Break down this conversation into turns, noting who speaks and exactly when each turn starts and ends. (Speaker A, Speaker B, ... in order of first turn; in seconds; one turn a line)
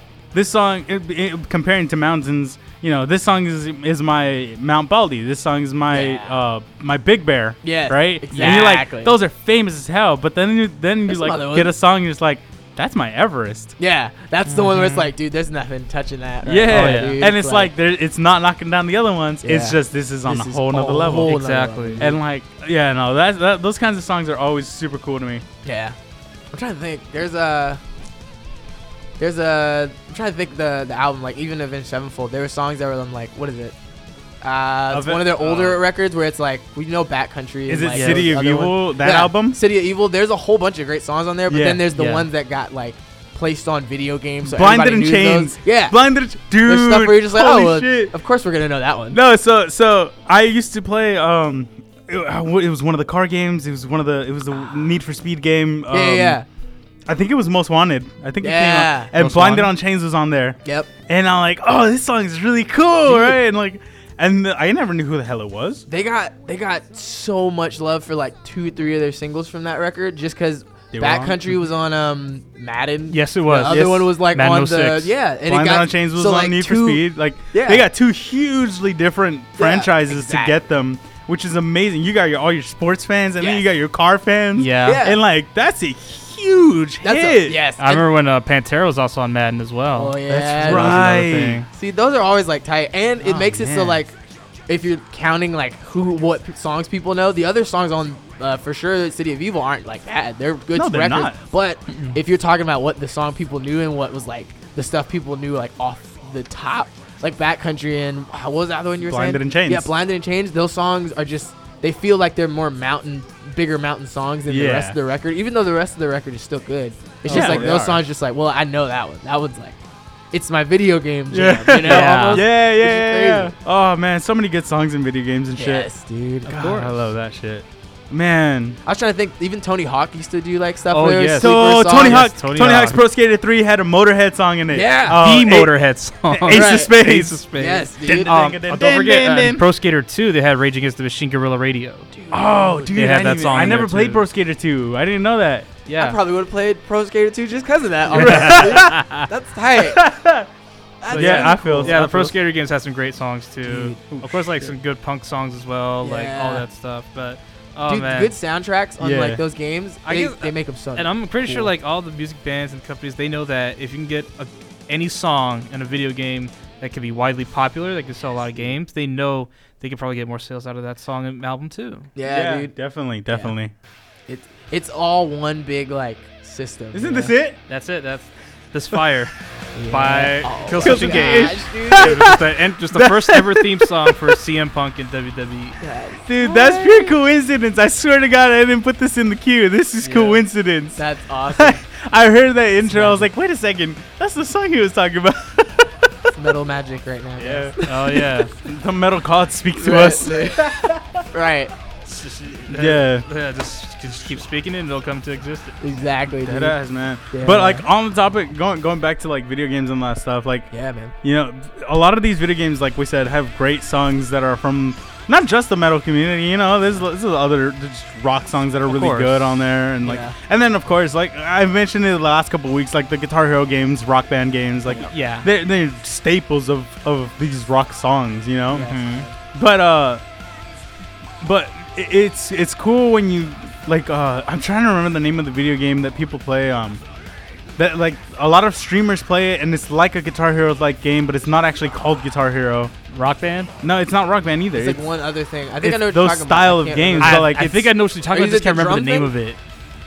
Speaker A: 0.3-13.7
Speaker B: 5.9-6.3
Speaker B: 7.6-9.1
Speaker C: 8.3-8.7
Speaker B: 11.1-11.7
Speaker B: 13.8-17.7
Speaker C: 14.5-15.1
Speaker A: 16.4-21.4
Speaker C: 16.7-17.2
Speaker B: 19.4-22.2
Speaker C: 21.2-22.0
Speaker A: 22.0-25.4
Speaker B: 25.6-26.0
Speaker B: 26.5-27.8
Speaker B: 29.2-33.8
Speaker B: 34.4-46.0
Speaker A: 34.9-35.6
Speaker C: 35.5-35.8
Speaker A: 37.7-39.6
Speaker C: 37.9-38.3
Speaker A: 41.5-41.9
Speaker C: 42.0-42.3
Speaker A: 44.4-48.1
Speaker B: 46.6-49.2
Speaker A: 49.1-56.4
Speaker B: 55.9-56.5
Speaker A: 57.1-65.8
Speaker B: 58.4-59.1
Speaker C: 59.1-59.7
Speaker B: 63.1-63.4
Speaker B: 65.9-77.9
Speaker A: 70.9-71.5
Speaker C: 73.1-75.1
Speaker A: 73.7-74.1
Speaker A: 75.5-87.6
Speaker B: 79.6-80.5
Speaker B: 83.4-83.6
Speaker C: 84.6-85.0
Speaker B: 84.8-85.2
Speaker B: 87.0-88.1
Speaker C: 87.8-91.7
Speaker B: 90.0-91.1
Speaker A: 90.3-91.7
Speaker B: 91.7-94.2
Speaker A: 93.2-94.0
Speaker B: 94.7-119.8
Speaker A: 100.7-101.4
Speaker C: 101.9-102.2
Speaker A: 109.0-109.9
Speaker A: 114.5-115.0
Speaker C: 117.3-117.8
Speaker A: 117.3-118.0
Speaker B: 120.3-123.5
Speaker A: 121.3-125.9
Speaker C: 121.8-122.5
Speaker B: 125.6-126.5
Speaker C: 126.5-127.0
Speaker A: 126.5-128.8
Speaker B: 128.8-132.3
Speaker C: 130.9-133.0
Speaker A: 131.4-137.4
Speaker B: 134.7-135.2
Speaker C: 135.1-142.1
Speaker B: 136.5-136.9
Speaker B: 137.6-138.4
Speaker A: 138.0-139.7
Speaker B: 142.1-143.8
Speaker A: 142.3-145.7
Speaker C: 142.9-144.2
Speaker C: 145.9-146.2
Speaker B: 145.9-150.1
Speaker C: 148.1-149.3
Speaker A: 148.1-149.0
Speaker A: 149.8-150.5
Speaker B: 151.0-152.0
Speaker C: 151.1-158.3
Speaker A: 151.1-152.4
Speaker B: 153.7-154.0
Speaker A: 154.1-154.3
Speaker B: 156.0-156.7
Speaker B: 157.9-161.7
Speaker A: 159.0-159.4
Speaker C: 160.1-172.1
Speaker B: 172.2-172.7
Speaker A: 172.2-173.7
Speaker B: 173.3-173.5
Speaker B: 174.3-177.3
Speaker A: 176.9-177.6
Speaker C: 177.7-179.3
Speaker B: 179.8-182.3
Speaker C: 179.9-185.8
Speaker A: 180.8-184.3
Speaker B: 185.8-187.2
Speaker A: 186.3-196.0
Speaker C: 190.0-190.4
Speaker B: 191.0-191.8
Speaker B: 192.8-193.3
Speaker B: 196.3-198.2
Speaker A: 197.4-201.1
Speaker C: 197.8-198.5
Speaker B: 199.8-201.7
Speaker C: 202.1-205.8
Speaker A: 202.7-203.3
Speaker B: 205.8-206.8
Speaker A: 206.4-210.7
Speaker B: 207.3-207.8
Speaker B: 210.7-211.1
Speaker A: 211.2-229.0
Speaker C: 218.9-219.6
Speaker B: 220.0-220.4
Speaker C: 225.1-225.5
Speaker B: 228.7-229.3
Speaker C: 228.7-229.3
Speaker A: 229.5-230.2
Speaker A: 231.4-237.0
Speaker A: 237.8-242.9
Speaker C: 243.1-243.7
Speaker A: 243.8-245.0
Speaker B: 244.7-247.5
Speaker A: 245.8-247.9
Speaker C: 247.2-249.6
Speaker B: 248.3-249.3